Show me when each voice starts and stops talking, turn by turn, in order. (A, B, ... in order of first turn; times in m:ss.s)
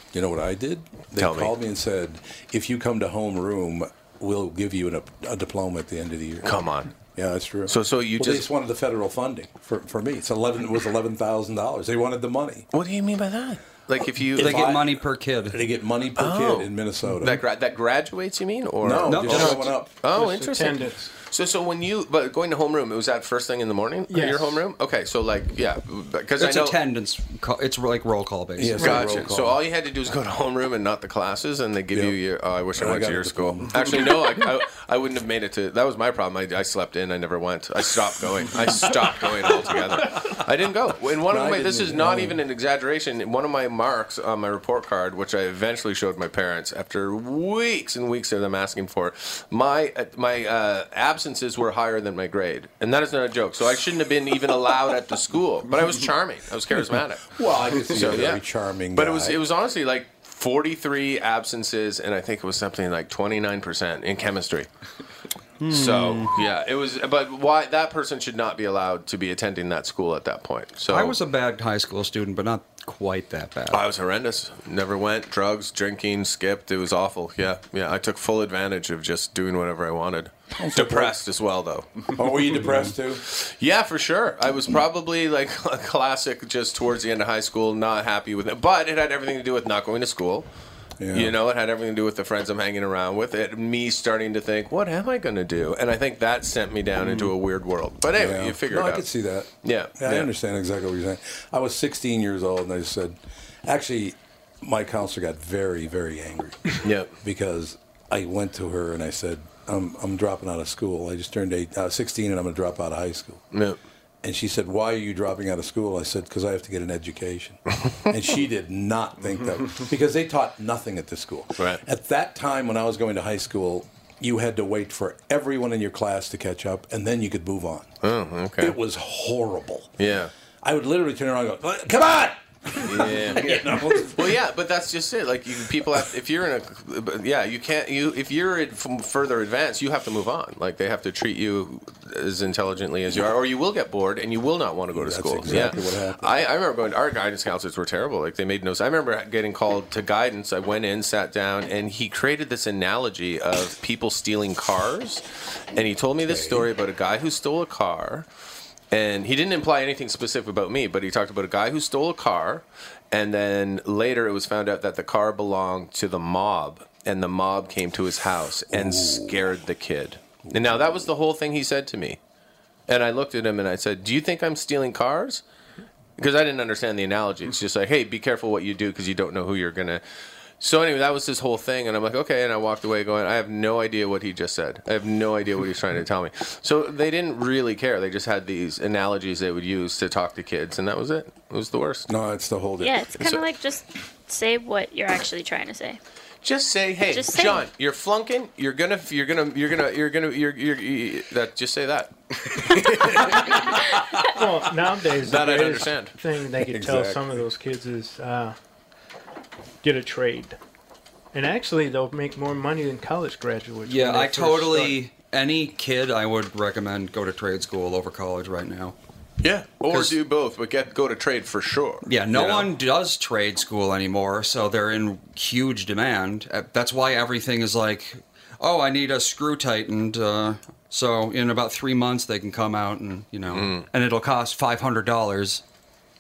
0:00.1-0:06.6 A
0:01.2-0:01.5 B
0:06.4-0:06.9 B
0:07.2-0:12.7 A
0:07.7-0:08.5 B
0:12.7-0:14.7 B
0:14.4-0:17.4 A
0:14.4-0:15.6 C
0:16.2-0:26.8 B
0:18.8-0:19.9 A
0:19.1-0:19.6 C
0:20.1-0:21.1 D
0:24.1-0:24.6 D
0:26.4-0:29.1 C
0:28.6-0:29.6 A
0:28.8-0:58.4 B
0:31.9-0:32.2 A
0:32.8-0:34.2 A
0:41.3-0:42.4 A
0:57.4-0:59.4 A
0:58.9-1:04.7 B
1:05.6-1:06.3 C
1:05.7-1:11.2 B
1:10.9-1:13.8 C
1:13.7-1:22.7 B
1:20.6-1:21.2 A
1:22.1-1:23.2 A
1:23.2-1:30.5 B
1:31.0-1:31.3 A
1:31.1-1:39.1 B
1:38.1-1:53.4 A
1:39.6-1:40.3 B
1:46.8-1:47.1 B
1:53.5-1:53.8 B
1:54.2-2:07.9 A
2:08.0-2:08.8 B
2:08.6-2:10.0 A
2:10.0-2:10.3 B
2:10.6-2:14.4 A
2:12.8-2:38.3 B
2:24.9-2:26.3 A
2:36.2-2:36.7 A
2:38.9-2:52.2 B
2:48.7-2:49.4 A
2:50.5-2:50.8 A
2:52.9-2:55.4 B
2:56.2-3:00.0 B
3:00.6-3:12.1 B
3:12.1-3:13.1 A
3:12.8-3:16.0 E
3:16.4-3:23.6 B
3:17.1-3:17.6 E
3:24.4-3:28.6 D
3:25.2-3:26.2 B
3:26.6-3:27.4 A
3:29.8-3:30.6 D
3:31.3-3:35.0 D
3:33.9-3:39.0 C
3:39.4-3:42.7 B
3:39.9-3:40.2 C
3:42.1-3:55.6 C
3:53.5-3:53.9 B